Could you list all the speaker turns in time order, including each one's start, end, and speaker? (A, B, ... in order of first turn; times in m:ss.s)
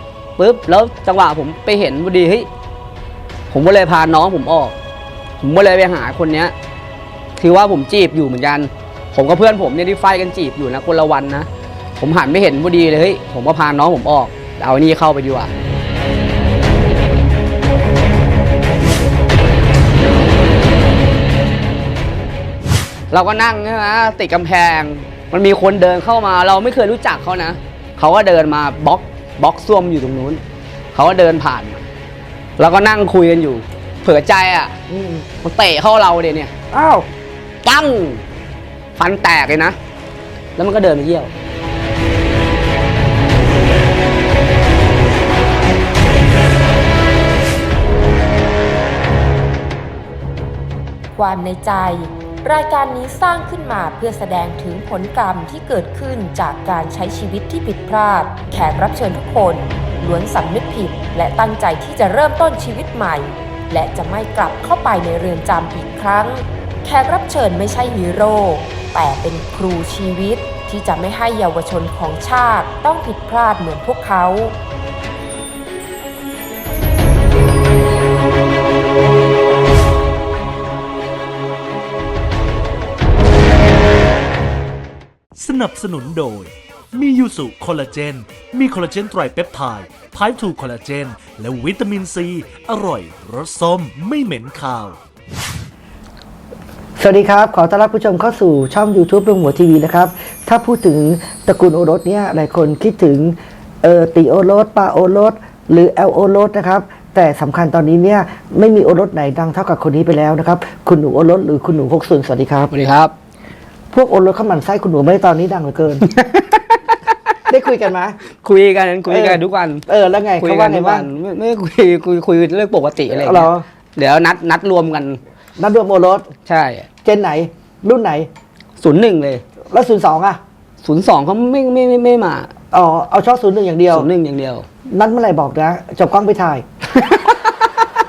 0:00.4-0:02.5 A
0:03.5-0:04.7 A
0:05.4-0:06.5 A
0:07.4-0:11.5 A
0:12.0-0:15.5 A
0:23.1-0:30.4 A
0:30.9-0:31.8 A
0:32.6-0:34.8 A
0:34.9-0:35.2 B
0:35.4-0:36.5 A
0:36.7-0:37.0 B
0:37.6-0:38.2 A
0:39.0-0:39.8 A
0:40.6-0:41.3 A
0:51.2-1:14.6 C
1:25.4-1:35.0 D
1:37.0-1:52.7 B
1:52.7-1:53.1 A
1:53.9-1:56.0 B
1:56.0-1:57.0 A
1:57.5-1:58.2 B
1:58.4-1:59.8 A
1:59.1-2:01.1 B
2:00.4-2:05.2 A
2:03.1-2:03.6 B
2:05.6-2:06.3 B
2:06.5-2:06.9 A
2:07.0-2:08.3 B
2:08.8-2:09.4 A
2:09.7-2:10.4 B
2:10.8-2:12.5 A
2:12.7-2:14.1 B
2:13.9-2:14.6 A
2:14.9-2:16.6 B
2:16.9-2:17.5 A